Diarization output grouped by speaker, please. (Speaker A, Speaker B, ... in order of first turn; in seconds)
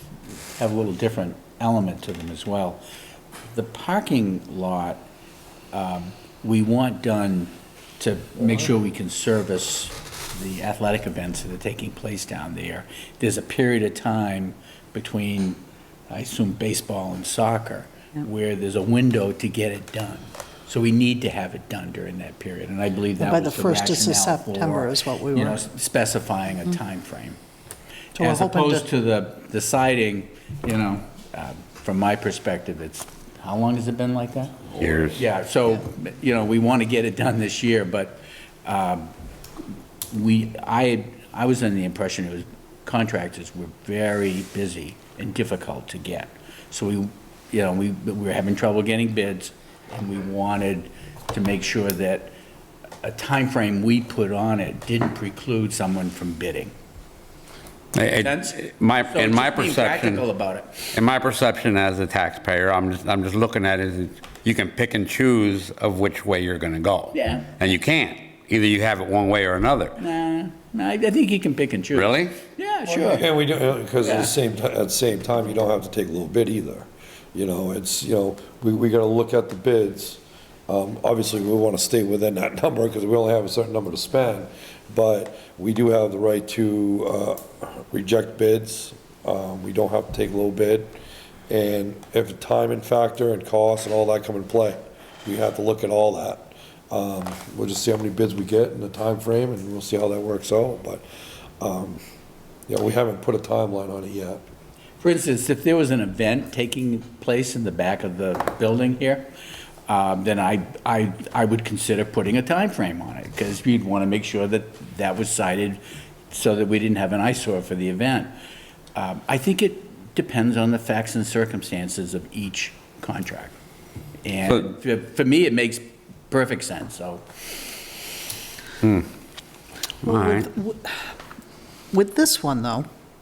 Speaker A: 0.5-2.8, 3.5-5.0, 5.7-15.6, 16.1-27.4, 28.2-39.1, 40.1-52.3, 53.0-56.7, 58.2-60.9, 67.1-67.5, 70.0-73.3, 74.0-74.3, 105.0-109.3, 109.9-118.3, 118.9-123.5, 124.2-127.2
Speaker B: 23.2-25.6, 28.1-28.9, 130.1-130.9, 131.9-132.9
Speaker C: 34.8-35.2, 57.9-60.2, 60.9-70.0, 71.9-72.4, 128.8-129.1, 130.0-130.5
Speaker D: 72.9-90.9, 91.5-101.0, 101.6-102.0, 102.7-104.4